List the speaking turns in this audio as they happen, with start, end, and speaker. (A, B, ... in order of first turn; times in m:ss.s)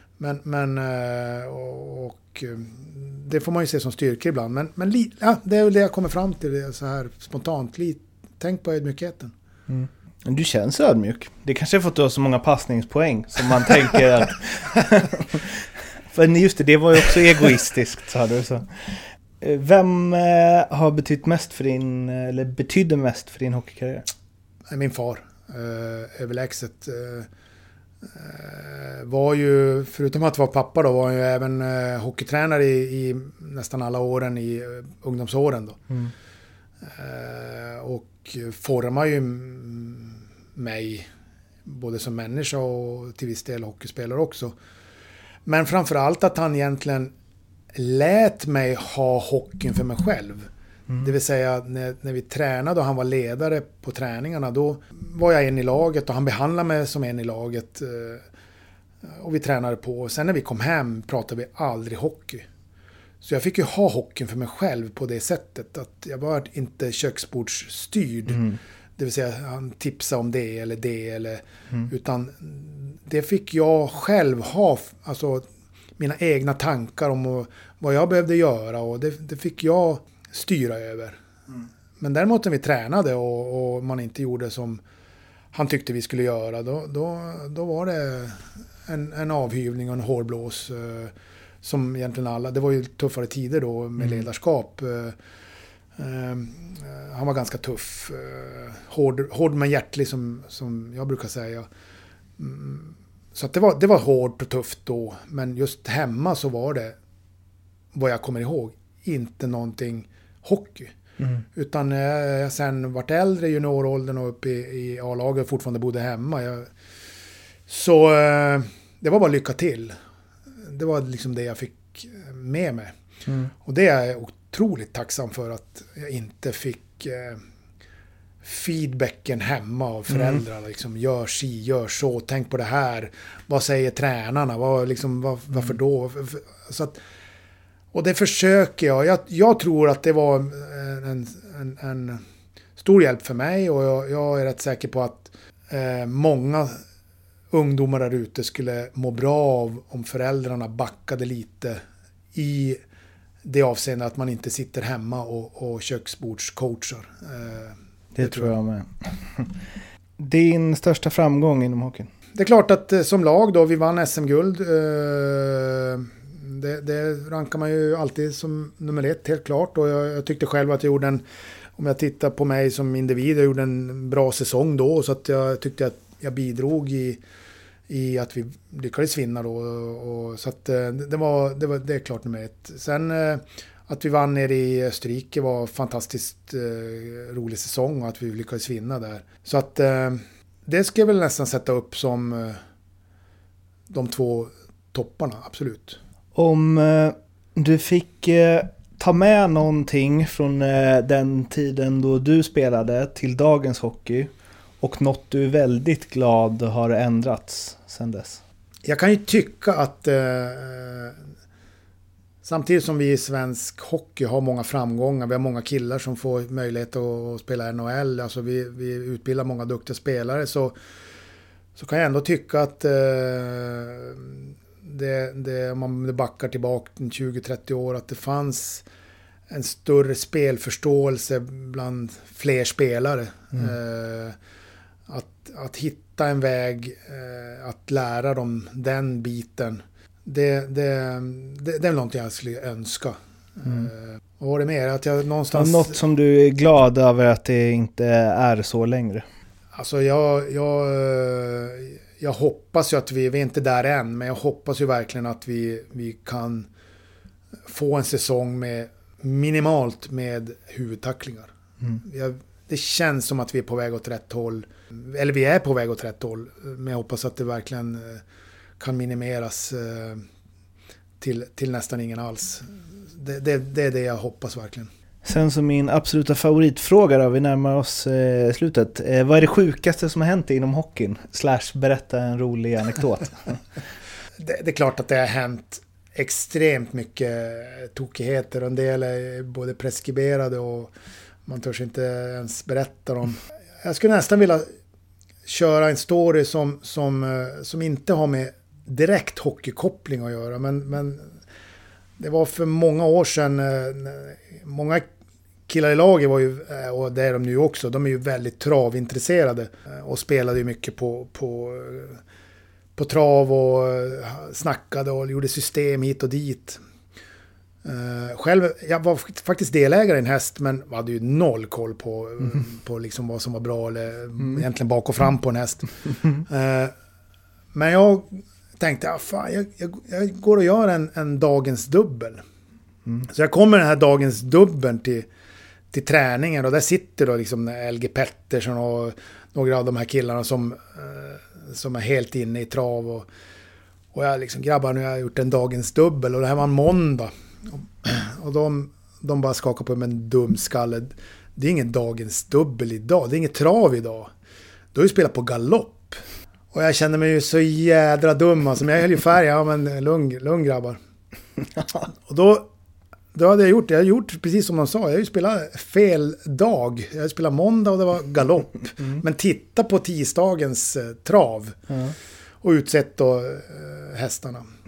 0:00.2-0:09.3 A
0:09.7-0:24.1 B
0:24.7-0:27.3 A
0:28.0-0:35.9 A
0:36.8-0:41.1 A
0:41.6-0:44.6 A
0:45.4-0:47.1 A
0:47.7-0:58.2 A
0:59.0-1:02.5 A
1:03.2-1:08.4 A
1:08.3-1:08.6 B
1:09.0-1:15.5 A
1:16.0-1:21.2 A
1:22.0-1:24.8 A
1:25.5-1:35.1 A
1:36.0-1:41.7 A
1:42.4-1:47.0 A
1:47.9-1:50.9 A
1:51.5-1:56.7 A
1:57.7-2:00.0 A
2:00.6-2:02.9 A
2:03.6-2:07.4 A
2:08.4-2:17.0 A
2:17.9-2:22.2 A
2:22.8-2:26.8 A
2:27.5-2:31.8 A
2:32.3-2:32.8 A
2:33.4-2:38.5 A
2:38.1-2:39.5 B
2:40.2-2:42.1 B
2:42.3-2:51.2 A
2:51.8-2:57.2 A
2:57.9-3:12.6 A
3:13.9-3:16.0 A
3:16.3-3:28.4 B
3:28.8-3:31.2 A
3:32.4-3:40.8 A
3:41.8-3:48.8 A
3:49.5-3:54.4 A
3:55.1-4:06.0 A
4:05.5-4:09.2 B
4:09.7-4:16.7 A
4:17.7-4:28.2 A
4:28.8-4:30.2 A
4:31.2-4:34.9 A
4:35.2-4:43.6 B
4:44.4-4:50.9 A
4:51.4-4:54.6 A
4:55.4-5:01.3 A
5:02.2-5:05.0 A
5:05.7-5:12.2 A
5:13.0-5:16.8 A
5:17.8-5:26.9 A
5:27.7-5:32.4 A
5:33.2-5:35.3 A
5:35.9-5:43.3 A
5:44.1-5:54.3 A
5:54.9-6:01.0 A
6:02.1-6:02.7 A
6:03.3-6:11.8 A
6:11.9-6:12.1 B
6:12.6-6:14.6 A